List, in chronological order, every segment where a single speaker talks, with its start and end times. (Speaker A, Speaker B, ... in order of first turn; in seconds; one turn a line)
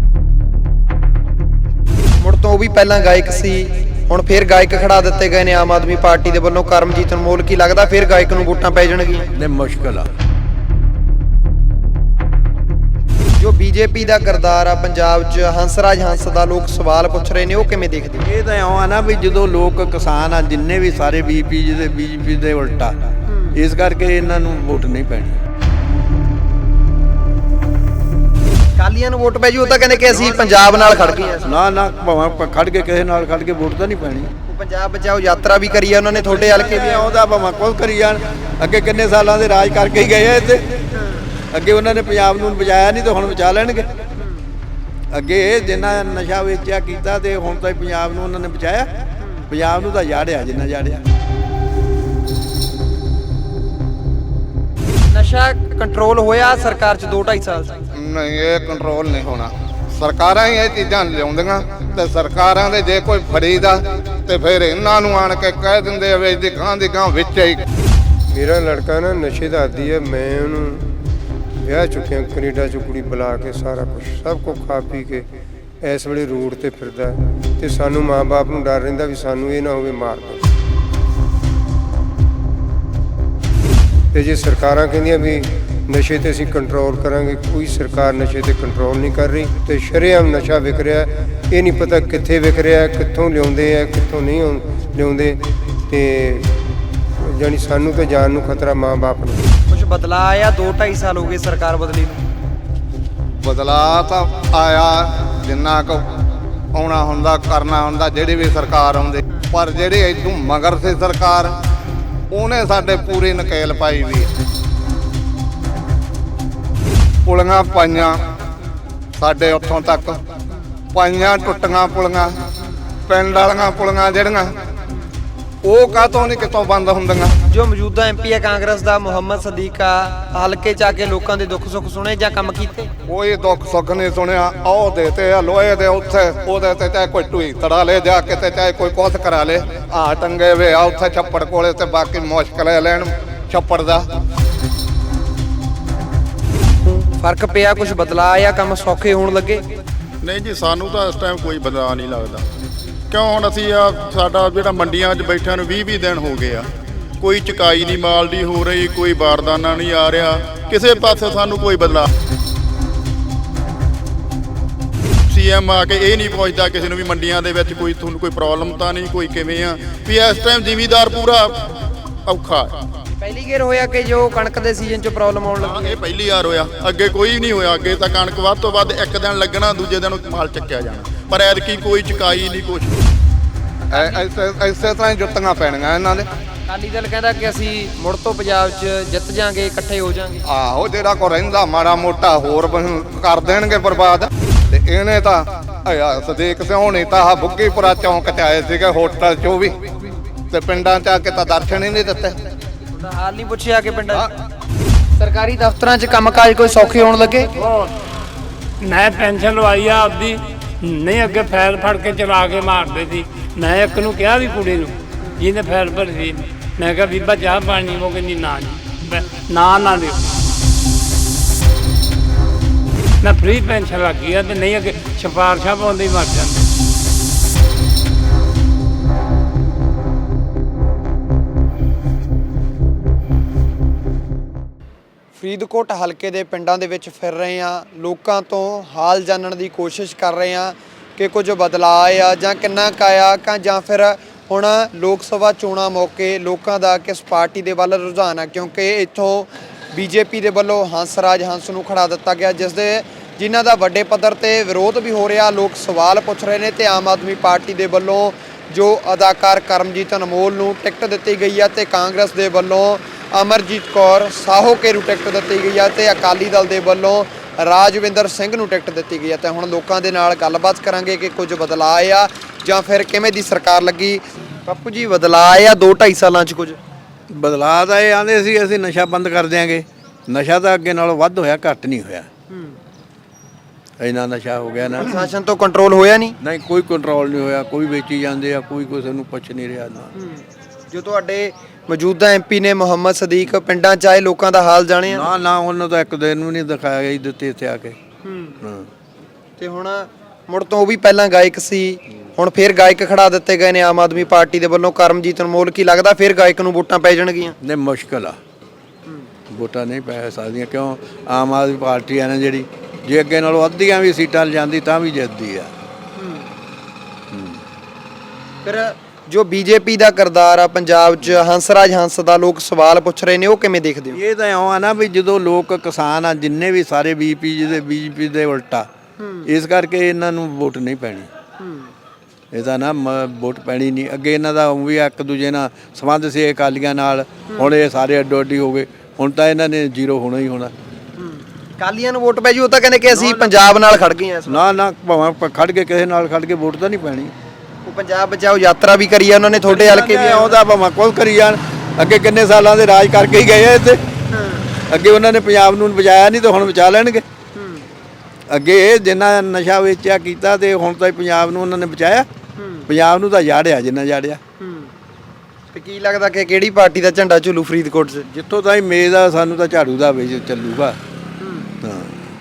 Speaker A: 2.2-9.3
Speaker B: 9.3-10.1
Speaker A: 13.4-18.3
Speaker B: 18.2-23.0
Speaker A: 23.3-23.6
Speaker B: 23.6-25.4
Speaker A: 28.8-31.6
Speaker B: 30.6-30.9
Speaker B: 31.4-34.3
Speaker A: 34.5-37.1
Speaker B: 36.1-40.6
Speaker B: 41.5-43.9
Speaker A: 44.2-44.5
Speaker B: 45.1-48.9
Speaker A: 49.2-49.5
Speaker B: 49.5-51.0
Speaker A: 55.1-57.8
Speaker C: 57.9-67.6
Speaker D: 68.3-71.0
Speaker D: 71.6-75.3
Speaker D: 75.8-80.5
Speaker D: 84.1-96.6
Speaker D: 97.2-99.5
Speaker A: 99.7-102.2
Speaker C: 103.3-106.1
Speaker C: 106.7-111.5
Speaker C: 112.3-114.3
Speaker C: 117.3-118.2
Speaker C: 119.2-120.2
Speaker C: 120.9-122.4
Speaker C: 123.1-124.6
Speaker C: 125.6-127.4
Speaker A: 127.5-132.9
Speaker C: 133.1-144.1
Speaker A: 146.8-149.6
Speaker E: 150.2-152.4
Speaker E: 153.1-156.7
Speaker E: 157.2-162.1
Speaker E: 165.3-171.7
Speaker E: 172.3-172.8
Speaker A: 173.2-175.9
Speaker E: 175.6-183.0
Speaker A: 183.9-184.2
Speaker C: 183.9-186.3
Speaker A: 186.7-190.4
Speaker C: 190.5-199.9
Speaker C: 200.5-202.4
Speaker A: 202.9-204.3
Speaker A: 205.2-207.5
Speaker F: 207.5-207.9
Speaker F: 208.8-220.4
Speaker F: 223.2-226.6
Speaker A: 235.3-276.8
Speaker B: 277.3-282.3
Speaker A: 282.5-282.8
Speaker B: 284.0-285.3
Speaker A: 284.9-286.4
Speaker B: 286.4-290.1
Speaker A: 290.1-295.3
Speaker B: 295.1-298.0
Speaker A: 298.2-298.6
Speaker B: 298.6-298.9
Speaker A: 299.6-307.6
Speaker B: 307.6-308.4
Speaker B: 309.5-315.7
Speaker A: 316.2-316.5
Speaker B: 317.3-317.6
Speaker A: 318.6-324.2
Speaker B: 324.1-328.9
Speaker A: 329.2-329.5
Speaker B: 329.5-331.3
Speaker A: 331.6-331.9
Speaker B: 332.5-340.7
Speaker A: 337.5-337.8
Speaker A: 341.2-344.7
Speaker B: 343.1-343.6
Speaker B: 344.5-347.3
Speaker A: 347.9-350.6
Speaker B: 349.6-354.0
Speaker A: 354.3-354.7
Speaker B: 354.9-357.2
Speaker A: 357.6-357.9
Speaker B: 358.5-362.3
Speaker A: 362.6-362.9
Speaker B: 362.9-364.4
Speaker A: 364.6-364.9
Speaker A: 365.7-368.3
Speaker B: 368.3-371.0
Speaker A: 371.4-371.7
Speaker B: 371.8-372.3